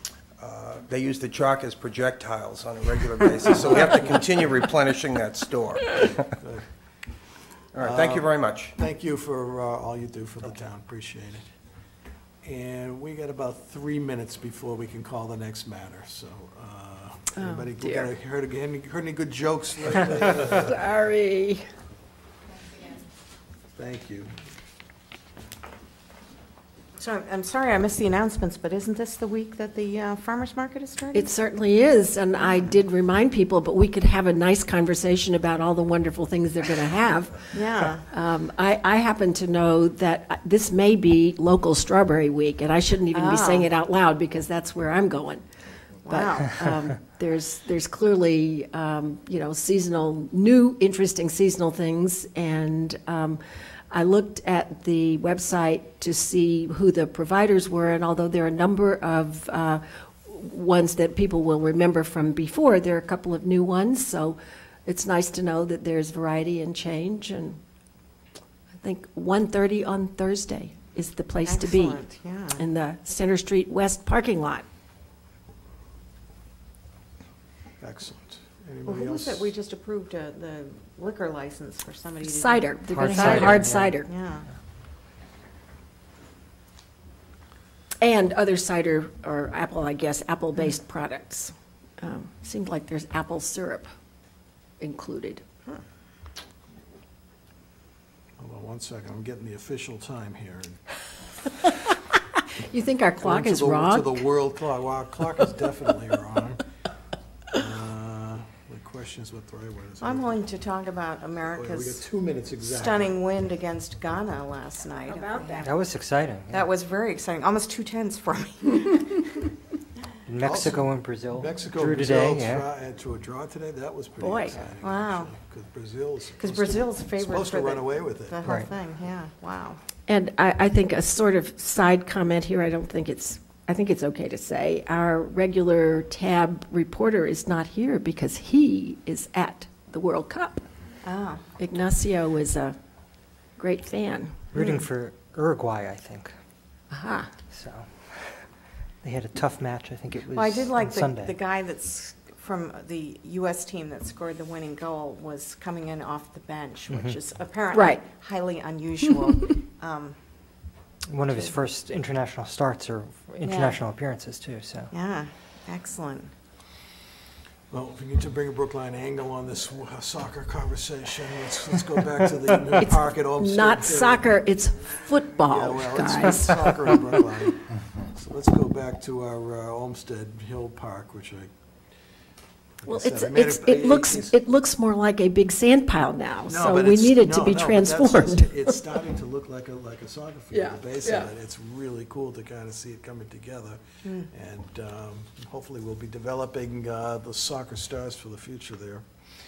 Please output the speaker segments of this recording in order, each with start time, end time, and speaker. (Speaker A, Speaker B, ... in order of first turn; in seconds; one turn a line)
Speaker A: 0.4-6.3
Speaker B: 3.7-4.2
Speaker B: 6.4-6.7
Speaker A: 7.7-8.7
Speaker B: 7.7-11.4
Speaker B: 12.4-20.7
Speaker C: 17.4-18.1
Speaker C: 20.6-21.6
Speaker B: 23.7-24.3
Speaker D: 27.0-31.3
Speaker C: 31.1-37.5
Speaker D: 37.5-38.0
Speaker C: 38.1-45.4
Speaker D: 43.1-43.7
Speaker D: 46.0-46.8
Speaker C: 46.1-67.6
Speaker C: 68.8-72.0
Speaker D: 71.5-72.6
Speaker C: 72.6-74.6
Speaker B: 77.8-79.5
Speaker D: 78.8-84.5
Speaker C: 82.2-84.1
Speaker E: 82.9-84.0
Speaker C: 88.0-93.9
Speaker C: 94.8-95.4
Speaker B: 98.4-100.8
Speaker C: 102.5-104.2
Speaker B: 103.2-106.6
Speaker B: 107.5-110.4
Speaker D: 110.0-112.0
Speaker B: 111.5-113.2
Speaker D: 112.6-115.7
Speaker C: 115.1-115.7
Speaker E: 115.6-116.7
Speaker D: 116.5-119.5
Speaker E: 120.3-122.7
Speaker B: 120.4-128.4
Speaker C: 124.2-124.5
Speaker D: 124.5-125.3
Speaker D: 126.4-129.8
Speaker C: 130.1-140.6
Speaker D: 141.0-141.4
Speaker C: 141.6-142.8
Speaker C: 143.6-144.4
Speaker E: 144.5-146.3
Speaker D: 144.5-144.8
Speaker C: 146.9-147.3
Speaker E: 147.5-148.3
Speaker E: 149.0-151.3
Speaker D: 150.3-160.2
Speaker E: 156.9-157.2
Speaker C: 157.7-158.0
Speaker E: 161.1-164.9
Speaker D: 163.4-163.8
Speaker D: 164.9-166.3
Speaker B: 167.7-174.4
Speaker C: 172.8-176.9
Speaker B: 175.5-181.5
Speaker B: 182.8-184.3
Speaker C: 182.8-188.8
Speaker B: 186.5-199.0
Speaker C: 190.5-191.3